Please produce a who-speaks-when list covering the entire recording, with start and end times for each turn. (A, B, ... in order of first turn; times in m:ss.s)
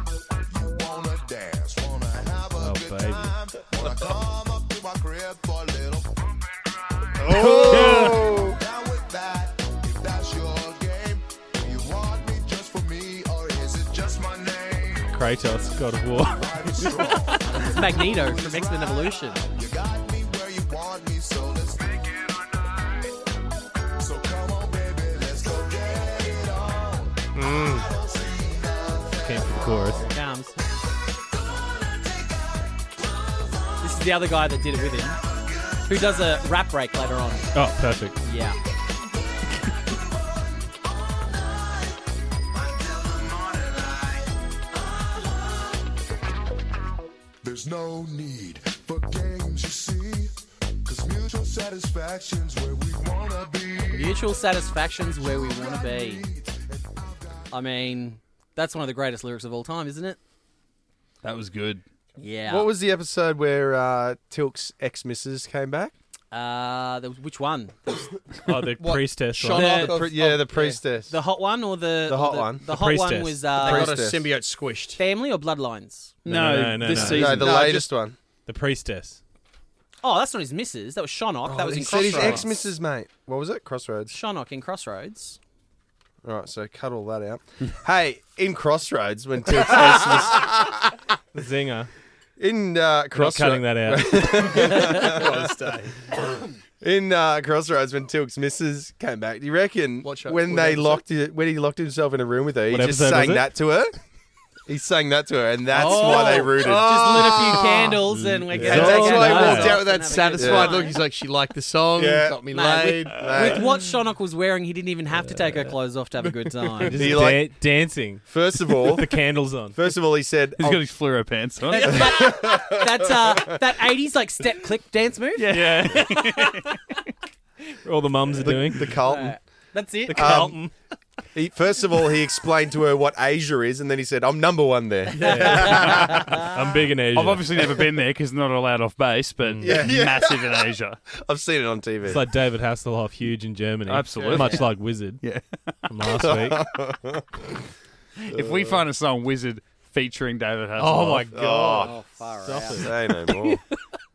0:00.5-0:07.4 A
0:02.6-0:03.3 B
0:07.2-0:08.5 C
0:07.4-0:08.3 D
0:07.6-0:08.3 B
0:08.4-0:15.2 A
0:15.1-0:17.4 B
0:16.2-0:23.0 A
0:17.5-0:19.4 E
0:24.0-0:30.0 A
0:27.3-0:27.9 D
0:29.2-0:30.0 B
0:30.0-0:30.6 E
0:33.8-0:35.2 E
0:35.6-0:36.2 A
0:35.8-0:37.5 E
0:37.5-0:38.2 B
0:38.2-0:38.6 E
0:42.6-0:44.2 A
0:47.4-0:54.4 A
0:53.9-0:56.2 E
0:55.1-0:57.5 A
0:57.5-1:00.2 E
1:01.2-1:01.8 F
1:02.2-1:02.7 E
1:02.5-1:05.9 C
1:06.3-1:08.1 E
1:08.5-1:09.9 B
1:08.8-1:10.8 D
1:09.5-1:10.0 E
1:09.8-1:11.1 C
1:11.1-1:13.9 E
1:12.1-1:12.7 C
1:12.7-1:13.5 B
1:13.6-1:15.0 D
1:13.6-1:14.3 C
1:15.0-1:16.2 E
1:16.2-1:17.5 F
1:16.3-1:17.5 B
1:16.9-1:17.9 D
1:17.0-1:18.2 C
1:18.5-1:19.2 B
1:20.0-1:22.5 E
1:21.5-1:24.1 C
1:21.6-1:22.5 D
1:24.1-1:25.4 E
1:26.2-1:30.8 C
1:31.3-1:31.9 B
1:32.4-1:35.5 C
1:33.1-1:34.5 B
1:34.4-1:36.1 D
1:36.8-1:43.9 C
1:40.0-1:41.0 D
1:42.7-1:43.5 B
1:44.7-1:47.6 C
1:45.7-1:51.0 E
1:45.8-1:48.0 D
1:48.2-1:49.7 C
1:48.6-1:49.9 B
1:48.6-1:53.6 D
1:50.4-1:50.9 C
1:52.0-1:52.4 C
1:52.5-1:57.0 E
1:53.0-1:53.6 C
1:55.2-1:55.7 B
1:56.9-1:59.8 B
1:56.9-1:57.6 C
1:58.3-1:59.1 C
1:59.7-2:00.9 C
2:00.6-2:02.3 F
2:01.7-2:05.6 E
2:01.9-2:03.4 C
2:05.4-2:06.8 F
2:05.5-2:06.4 B
2:07.8-2:09.0 B
2:08.4-2:09.4 C
2:09.0-2:10.6 E
2:10.1-2:10.7 C
2:10.1-2:10.7 B
2:11.3-2:16.2 C
2:15.2-2:17.5 B
2:15.4-2:16.5 E
2:15.7-2:16.1 F
2:17.2-2:21.0 F
2:19.4-2:19.9 B
2:19.6-2:20.7 C
2:21.2-2:22.2 C
2:22.0-2:25.2 B
2:23.9-2:25.7 F
2:24.2-2:24.5 D
2:24.3-2:24.6 E
2:25.9-2:26.7 B
2:26.2-2:27.2 C
2:28.2-2:31.3 F
2:28.3-2:28.8 C
2:30.8-2:32.0 D
2:31.3-2:32.0 C
2:31.8-2:32.8 E
2:32.4-2:33.5 B
2:32.8-2:33.6 C